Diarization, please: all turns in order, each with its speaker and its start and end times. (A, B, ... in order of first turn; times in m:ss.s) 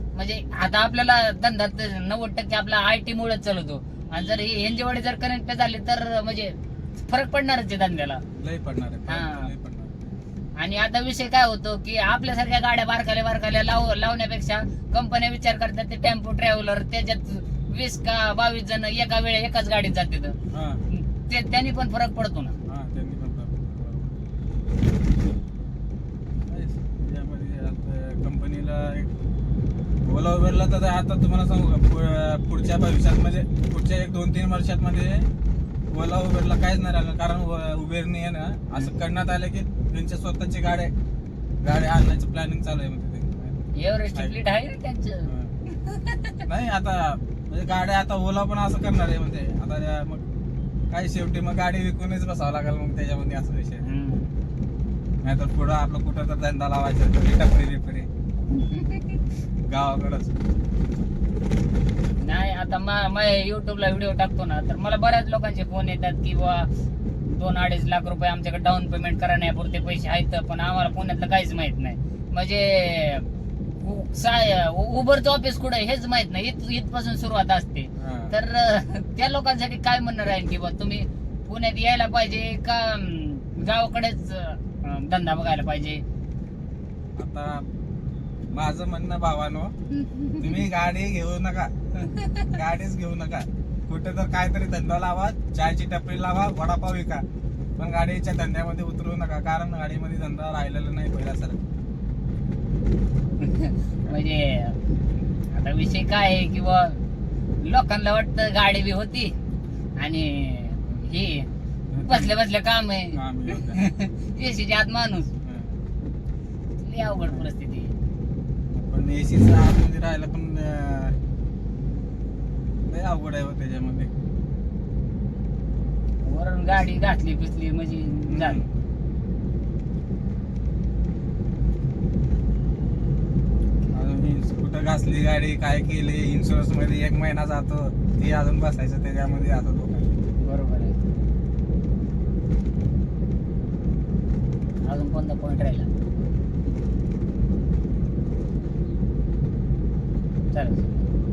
0:00.1-0:08.2 A
0:08.4-0:10.0 B
0:09.1-0:09.5 A
0:10.6-0:20.4 A
0:20.5-0:20.8 B
0:20.9-0:22.6 A
0:22.7-0:24.2 B
0:26.5-0:29.1 B
0:30.0-0:35.3 B
0:35.9-0:40.9 B
0:41.6-0:44.4 B
0:43.8-0:46.4 A
0:45.2-0:45.5 B
0:46.5-0:50.2 B
0:50.9-0:53.8 B
0:53.8-0:54.3 A
0:55.2-0:58.1 B
0:58.6-0:59.0 A
0:59.7-1:00.4 B
1:02.2-1:06.7 A
1:07.2-1:26.0 A
1:18.0-1:18.4 B
1:27.2-1:27.7 B
1:28.5-1:29.7 B
1:30.0-1:30.6 A
1:30.4-1:31.7 B
1:32.1-1:32.4 A
1:32.4-1:37.2 B
1:37.8-1:41.6 B
1:43.4-1:44.8 A
1:45.5-1:47.0 A
1:47.6-1:49.3 A
1:50.0-1:51.5 A
1:51.9-1:52.4 B
1:52.0-1:55.3 A
1:53.1-1:53.9 B
1:55.4-1:55.8 B
1:56.8-1:57.9 A
1:58.7-2:01.2 B
2:02.8-2:04.1 B
2:06.2-2:08.6 A
2:08.2-2:08.7 B
2:13.9-2:20.1 B
2:20.4-2:21.0 A
2:24.8-2:25.9 A
2:30.5-2:31.1 A